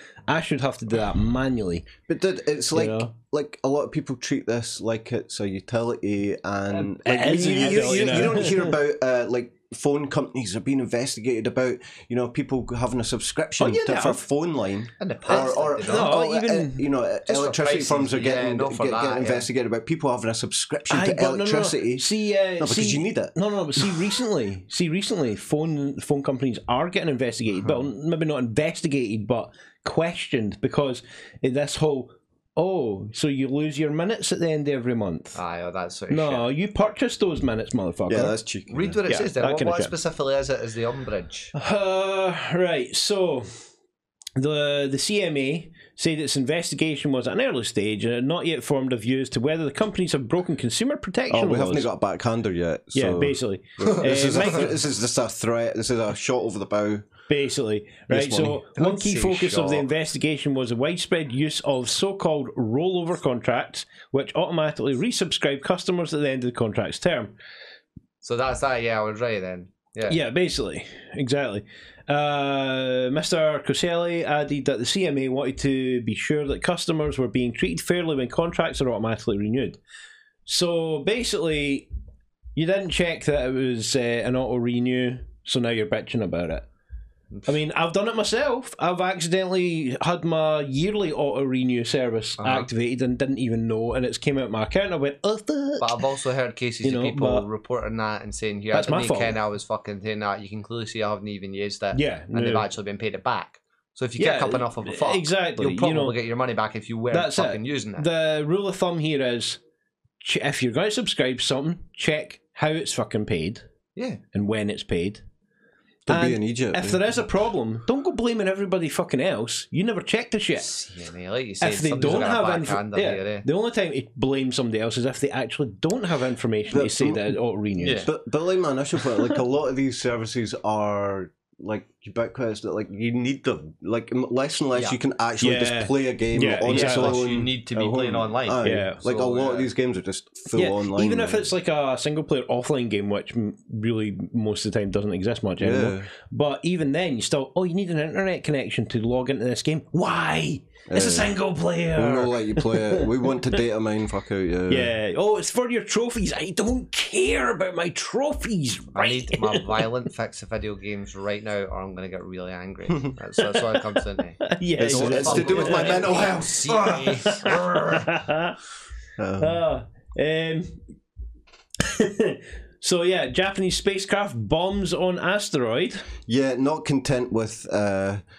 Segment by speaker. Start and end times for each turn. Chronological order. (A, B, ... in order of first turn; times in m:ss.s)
0:00.3-0:01.9 A
0:02.1-0:24.1 B
0:02.7-0:03.1 A
0:06.7-0:08.7 A
0:13.6-0:14.2 A
0:15.0-0:16.1 C
0:15.3-0:16.9 A
0:17.2-0:19.5 C
0:20.9-0:35.4 A
0:35.3-0:36.4 C
0:36.1-0:38.3 A
0:38.1-0:39.0 B
0:38.7-0:41.5 C
0:39.1-0:39.9 A
0:41.5-0:43.5 A
0:44.4-0:51.9 A
0:51.3-0:57.1 B
0:52.9-0:54.8 A
0:57.3-1:07.3 A
0:58.1-0:58.6 B
0:58.8-0:59.9 C
1:08.2-1:10.2 C
1:10.1-1:19.8 A
1:20.4-1:21.9 A
1:22.5-1:26.6 A
1:27.4-1:36.0 A
1:32.4-1:32.7 C
1:35.8-1:48.1 C
1:36.8-1:37.4 A
1:38.7-1:39.4 A
1:41.9-1:42.7 A
1:44.2-1:46.2 A
1:47.1-1:49.6 A
1:50.2-1:53.6 A
1:54.3-1:55.2 A
1:56.1-1:57.1 B
1:56.1-2:00.7 A
2:00.6-2:03.4 C
2:01.6-2:08.1 A
2:06.7-2:07.4 B
2:07.8-2:08.1 C
2:08.1-2:21.5 B
2:09.0-2:09.4 A
2:15.4-2:17.2 A
2:16.6-2:19.7 C
2:18.6-2:19.0 A
2:20.5-2:33.6 A
2:25.6-2:26.1 B
2:30.9-2:31.3 B
2:31.9-2:34.9 B
2:34.7-2:39.9 A
2:38.9-2:48.0 C
2:44.4-2:46.2 A
2:44.8-2:47.6 B
2:47.1-2:48.6 A
2:49.2-2:49.6 B
2:49.4-2:50.8 A
2:51.8-2:56.1 A
2:56.2-2:58.2 B